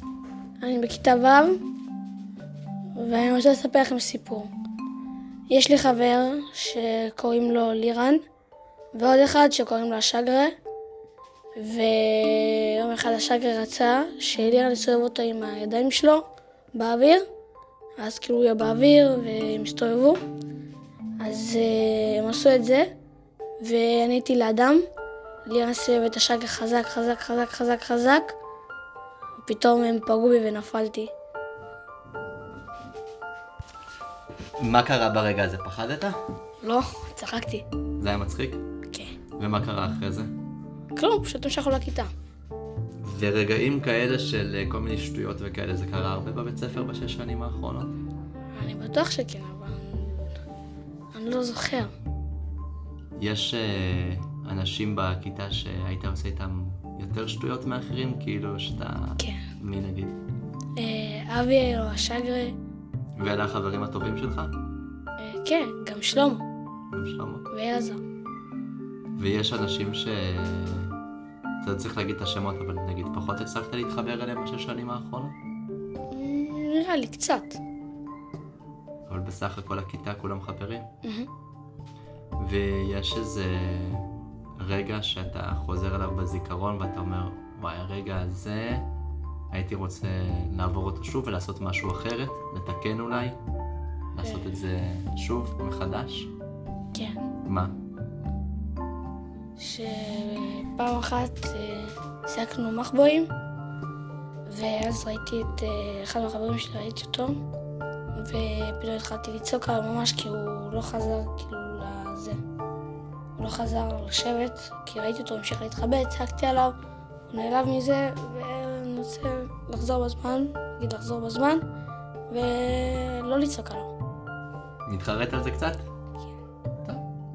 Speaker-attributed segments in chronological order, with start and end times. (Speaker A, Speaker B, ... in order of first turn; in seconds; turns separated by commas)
Speaker A: 0.6-1.6, Speaker A: 3.0-4.5, Speaker A: 5.5-8.2, Speaker A: 8.9-10.6, Speaker A: 11.6-17.2, Speaker A: 18.0-20.2, Speaker A: 21.2-22.9, Speaker A: 23.6-24.8, Speaker A: 25.4-28.4, Speaker A: 29.4-31.1, Speaker B: 34.6-36.2, Speaker A: 36.6-37.6, Speaker B: 38.0-38.6, Speaker A: 38.9-39.2, Speaker B: 39.4-40.3, Speaker A: 40.9-42.1, Speaker B: 43.0-47.9, Speaker A: 48.5-50.4, Speaker A: 51.1-51.9, Speaker B: 53.2-60.2, Speaker A: 60.8-62.5, Speaker B: 63.2-64.5, Speaker A: 65.2-66.4, Speaker B: 66.9-67.5, Speaker A: 67.5-68.0, Speaker B: 69.2-70.9, Speaker B: 71.6-75.3, Speaker A: 76.1-77.6, Speaker B: 79.1-80.9, Speaker B: 82.4-88.9, Speaker B: 89.5-93.4, Speaker B: 94.1-96.3, Speaker A: 96.9-97.2, Speaker B: 97.5-97.7, Speaker A: 99.6-103.3, Speaker A: 104.5-107.4, Speaker A: 108.1-112.4, Speaker A: 113.4-116.8, Speaker A: 117.3-121.6, Speaker A: 122.3-123.9, Speaker B: 124.8-125.8